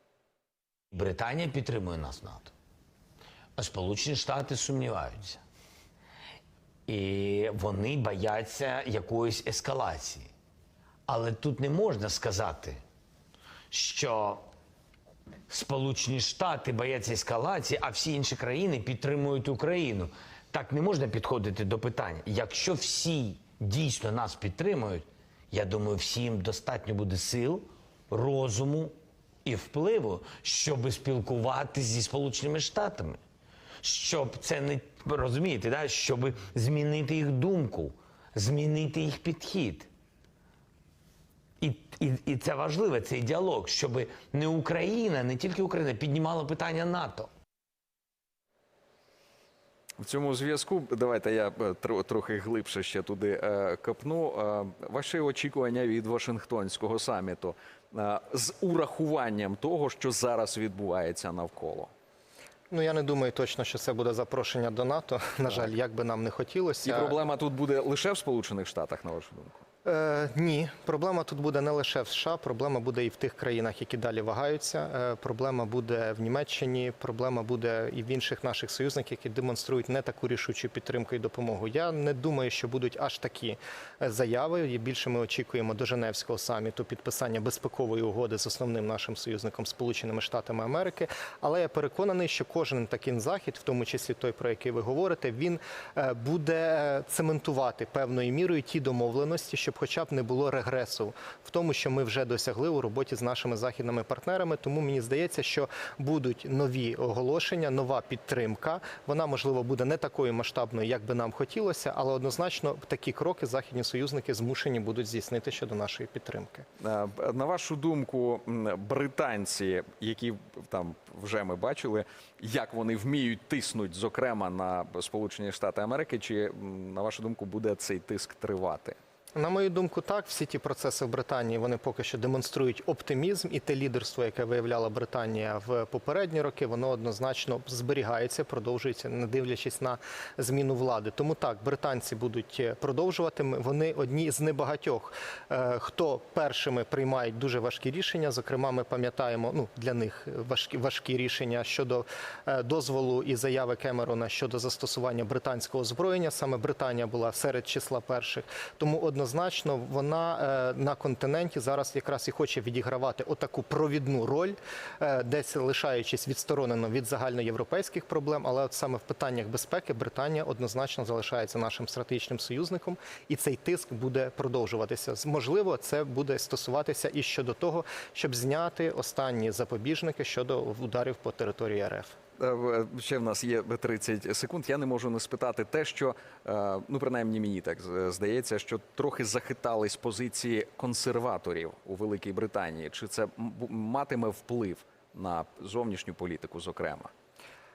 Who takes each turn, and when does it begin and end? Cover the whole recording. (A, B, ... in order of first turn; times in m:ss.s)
0:00.9-0:02.5 A
0:03.6-0:05.4 A
0:06.9-0:10.3 A
0:11.1-0:12.8 A
0:13.7-0:14.5 A
0:15.5-0:28.9 A
0:29.4-0:33.2 A
0:33.8-0:39.9 A
0:41.6-0:47.3 A
0:50.0-1:01.9 B
1:02.7-1:07.2 C
1:06.8-1:09.6 B
1:09.8-1:56.6 C
1:56.8-2:09.0 B
2:09.4-3:02.2 C
3:02.4-3:17.1 B